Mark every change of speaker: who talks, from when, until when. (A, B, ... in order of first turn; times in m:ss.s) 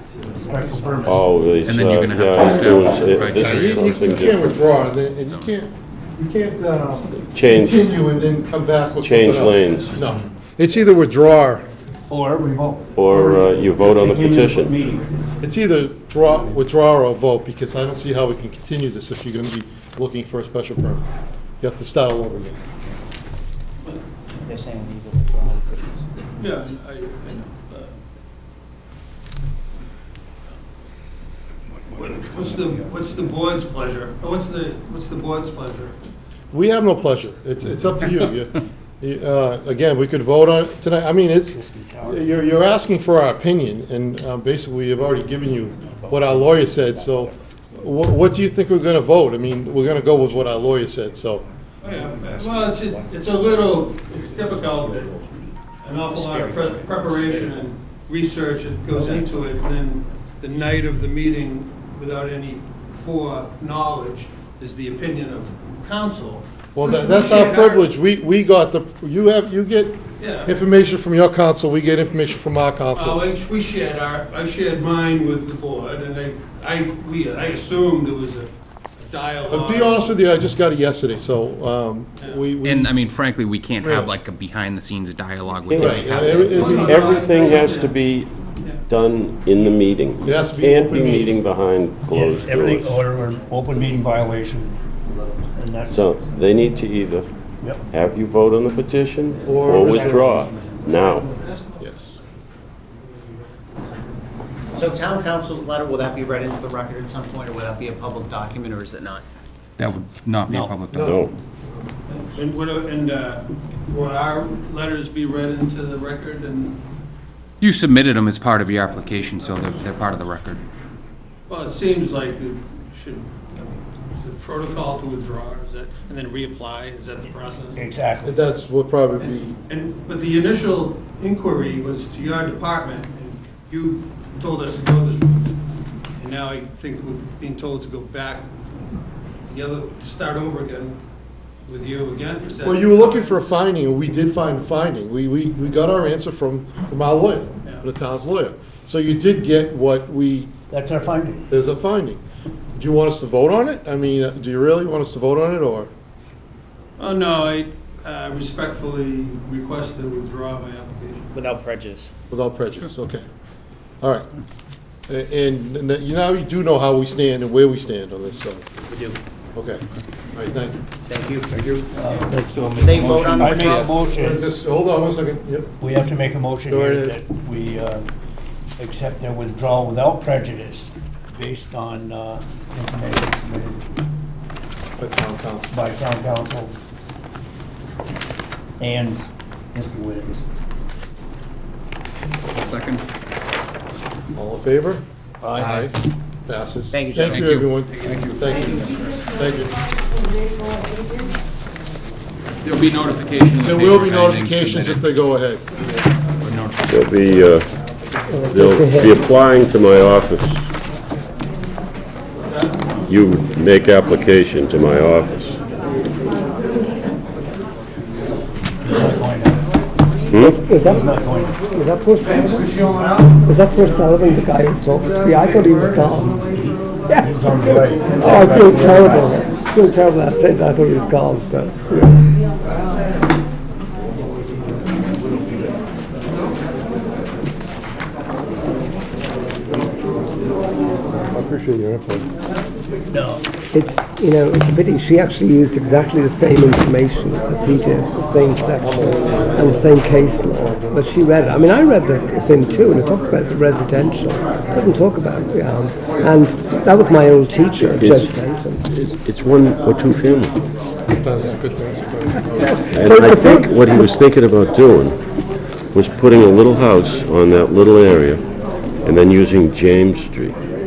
0:00.3-0:01.3 A
0:01.0-0:04.6 B
0:01.6-0:05.5 C
0:02.4-0:02.7 D
0:03.4-0:11.7 D
0:07.2-0:07.8 B
0:09.0-0:10.0 B
0:12.1-0:15.1 A
0:13.0-0:14.8 B
0:15.4-0:21.1 D
0:21.6-0:22.6 D
0:26.4-0:28.0 E
0:31.9-0:36.0 E
0:32.3-0:32.9 A
0:36.5-0:51.4 D
0:41.5-0:42.3 A
0:46.0-0:47.2 A
0:51.8-0:55.2 E
0:54.5-0:55.5 A
0:55.8-1:07.9 E
0:56.1-0:57.4 A
1:06.7-1:13.2 D
1:10.2-1:10.5 E
1:12.9-1:20.1 E
1:19.5-1:23.0 D
1:22.2-1:22.5 E
1:22.6-1:26.9 C
1:23.8-1:24.1 D
1:25.6-1:26.1 B
1:25.7-1:27.4 D
1:26.2-1:28.0 E
1:26.7-1:33.0 B
1:30.2-1:31.4 D
1:32.1-1:34.7 A
1:35.5-1:36.0 A
1:35.9-1:37.3 B
1:37.9-1:41.3 B
1:39.4-1:40.5 D
1:39.6-1:40.8 A
1:41.2-1:41.9 E
1:41.8-1:42.2 D
1:44.7-1:49.2 F
1:49.8-1:51.1 C
1:50.5-1:50.7 A
1:50.9-1:51.9 D
1:51.0-1:51.3 B
1:52.1-1:56.8 E
1:57.6-2:00.6 C
2:01.5-2:07.8 E
2:07.7-2:08.4 A
2:08.2-2:09.5 D
2:09.2-2:15.5 E
2:16.2-2:18.5 E
2:19.5-2:21.0 E
2:21.6-2:23.4 E
2:22.6-2:30.5 D
2:30.7-2:31.6 A
2:31.5-2:32.2 D
2:32.7-2:35.9 D
2:37.0-2:41.3 E
2:41.3-2:42.1 F
2:42.3-2:43.2 D
2:44.0-2:44.3 D
2:45.1-2:48.7 D
2:49.5-2:49.8 D
2:50.3-2:50.8 D
2:51.1-2:51.5 F
2:51.6-2:54.0 C
2:51.9-2:54.4 A
2:52.8-2:53.9 F
2:54.1-2:55.7 D
2:55.8-2:58.1 A
2:56.7-2:57.2 D
2:58.8-3:03.8 A
3:05.0-3:05.7 D
3:05.7-3:06.8 A
3:08.8-3:10.4 A
3:12.5-3:13.0 C
3:14.3-3:15.9 D
3:15.5-3:15.9 C
3:16.4-3:19.8 D
3:17.2-3:19.2 C
3:22.6-3:25.0 C
3:23.6-3:25.6 D
3:26.4-3:26.8 C
3:26.9-3:27.7 B
3:28.3-3:29.2 G
3:28.5-3:30.6 B
3:32.5-3:32.9 E
3:33.1-3:35.6 B
3:38.8-3:39.6 A
3:40.3-3:40.6 B
3:40.3-3:42.8 G
3:40.7-3:41.6 A
3:42.7-3:43.3 E
3:43.0-3:43.2 A
3:43.3-3:46.4 G
3:46.5-3:49.4 A
3:47.1-3:52.2 G
4:01.2-4:02.3 D
4:03.1-4:03.4 A
4:03.7-4:18.8 G
4:08.8-4:10.0 D
4:10.6-4:11.0 D
4:17.9-4:20.6 B
4:21.1-4:22.9 D
4:22.6-4:24.1 G
4:22.9-4:25.2 B
4:25.9-4:28.4 B
4:29.0-4:30.6 B